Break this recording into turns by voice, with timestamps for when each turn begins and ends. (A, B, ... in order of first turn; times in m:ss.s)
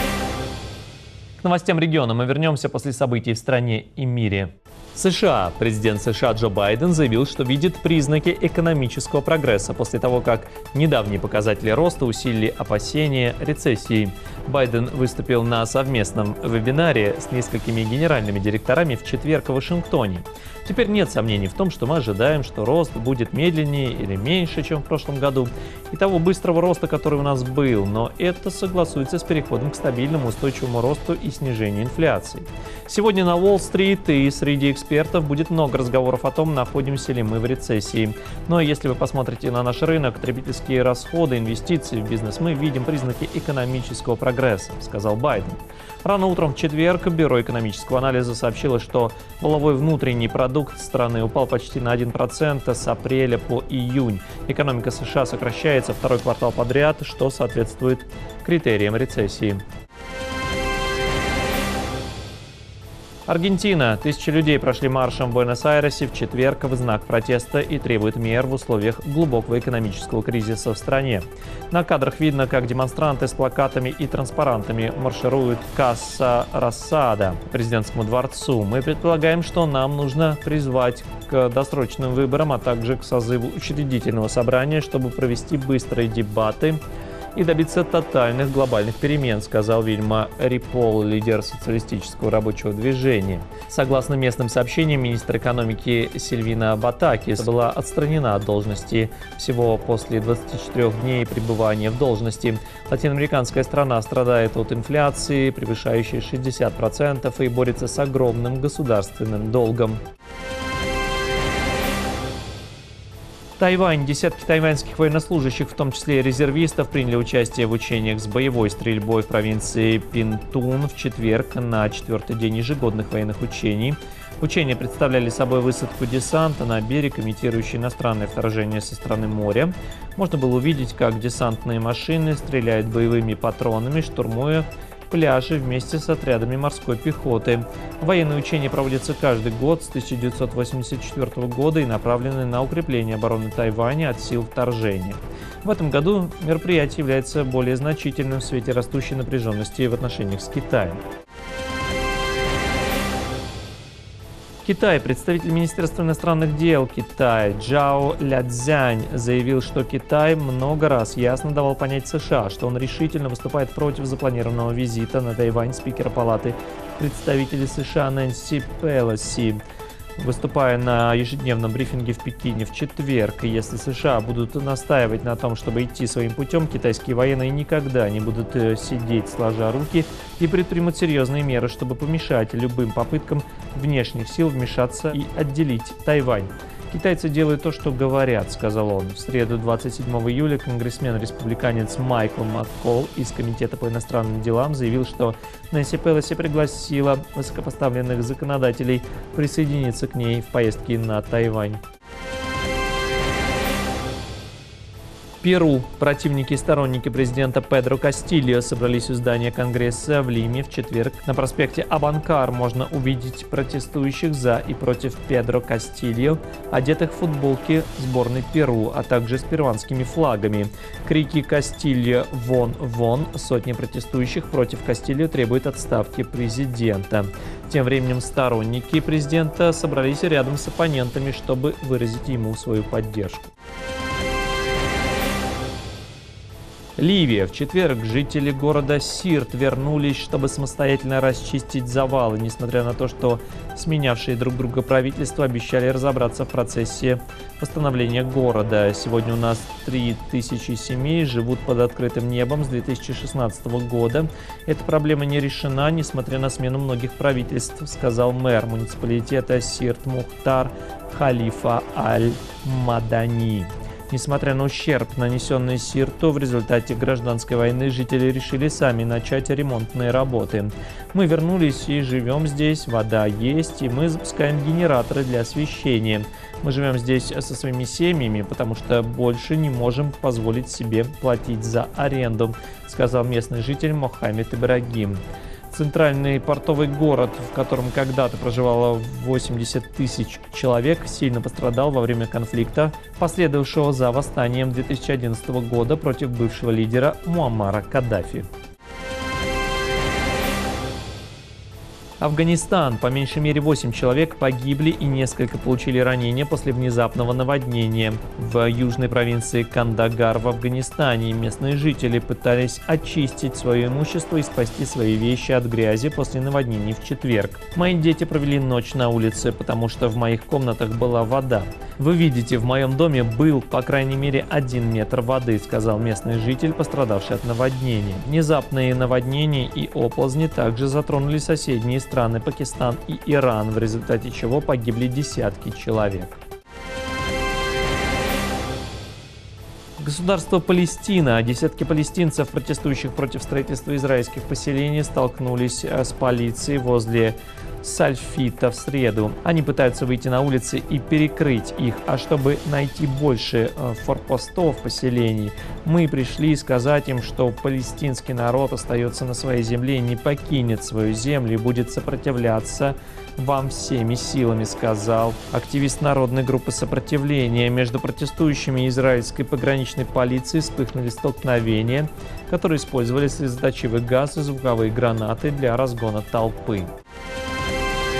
0:01.4-0:59.6 A
1:03.3-1:26.8 A
1:27.3-1:50.0 A
1:53.6-2:31.0 A
2:34.6-2:49.6 A
2:50.2-3:21.8 A
3:25.4-3:53.5 A
3:57.0-4:58.5 A
5:02.2-5:36.4 A
5:40.0-6:16.9 A